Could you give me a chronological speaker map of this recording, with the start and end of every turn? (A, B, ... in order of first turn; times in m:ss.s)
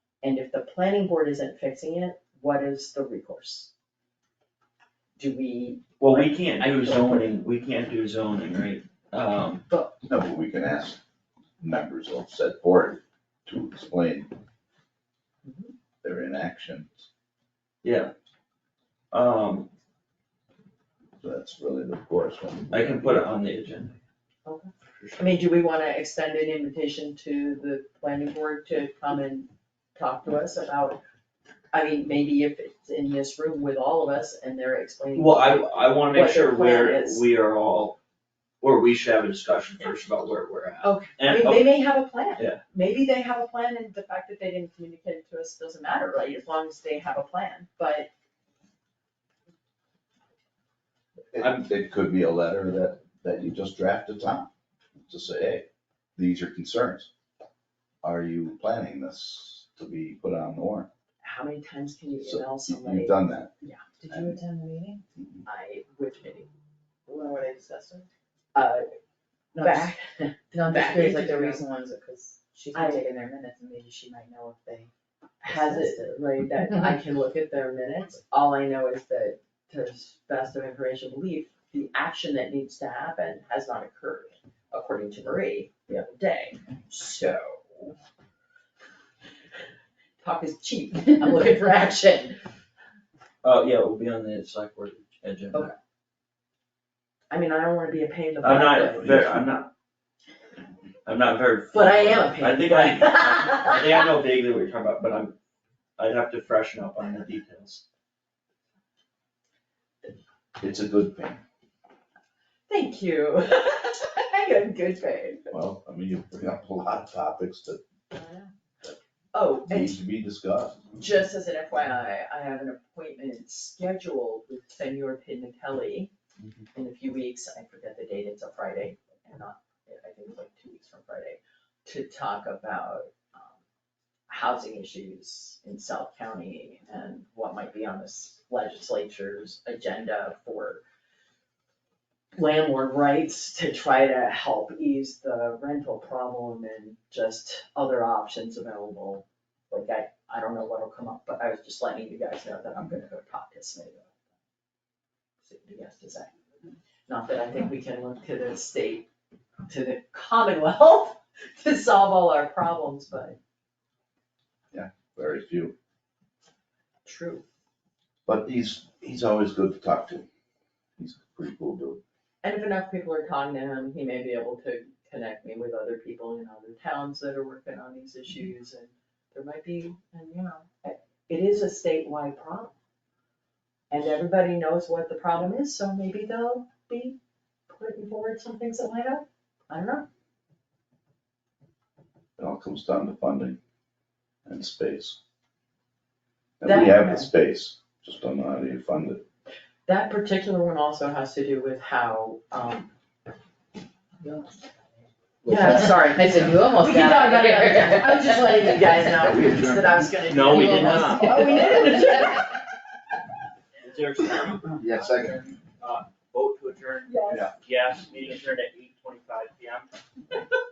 0:00.2-0:03.7 A
0:05.2-0:07.3 A
0:06.0-0:09.7 B
0:10.1-0:11.0 C
0:11.6-0:14.3 C
0:15.4-0:15.7 A
0:16.0-0:17.1 C
0:17.8-0:18.1 B
0:19.1-0:19.7 B
0:21.2-0:23.3 C
0:22.7-0:24.0 B
0:24.5-0:31.0 A
0:25.0-0:25.3 B
0:31.7-0:37.2 A
0:35.2-0:38.0 B
0:38.6-0:41.8 B
0:40.8-0:48.1 A
0:42.4-0:42.6 B
0:51.3-0:54.5 C
0:51.4-0:51.6 B
0:55.1-0:57.1 C
0:58.0-1:00.9 C
1:01.2-1:03.9 A
1:02.2-1:03.5 C
1:04.0-1:05.0 D
1:05.4-1:06.5 A
1:07.1-1:08.1 D
1:08.6-1:08.9 A
1:09.5-1:09.9 D
1:09.6-1:11.6 A
1:10.5-1:14.9 D
1:12.7-1:13.0 A
1:15.4-1:16.2 D
1:15.4-1:28.0 A
1:30.2-1:32.4 A
1:33.4-1:35.7 B
1:37.3-1:39.1 A
1:38.4-1:39.7 B
1:38.9-1:39.5 C
1:41.0-1:45.4 B
1:41.7-1:44.1 A
1:46.0-1:47.8 B
1:50.6-1:51.4 C
1:52.7-1:55.5 A
1:55.5-1:57.8 C
1:58.1-1:58.5 A
1:59.3-2:00.0 A
1:59.6-2:00.8 C
2:00.9-2:06.1 A
2:06.7-2:13.6 A
2:14.3-2:20.8 A
2:22.4-2:34.1 A
2:35.4-2:36.3 A
2:37.1-2:39.1 A
2:39.7-2:43.4 A
2:44.7-2:45.7 C
2:47.0-2:47.4 A
2:48.3-2:50.3 C
2:51.0-2:52.0 C
2:52.4-3:02.7 A
3:03.9-3:07.2 A
3:07.7-3:10.1 A
3:12.4-3:13.6 C
3:14.5-3:15.2 C
3:16.6-3:19.2 C
3:16.6-3:17.3 A
3:19.9-3:22.9 A
3:24.2-3:24.6 D
3:25.4-3:25.9 C
3:25.5-3:32.6 A
3:25.5-3:29.4 D
3:29.2-3:30.1 C
3:30.3-3:32.0 B
3:30.5-3:32.4 D
3:33.8-3:39.9 B
3:34.8-3:35.4 C
3:37.1-3:37.5 A
3:37.3-3:37.5 C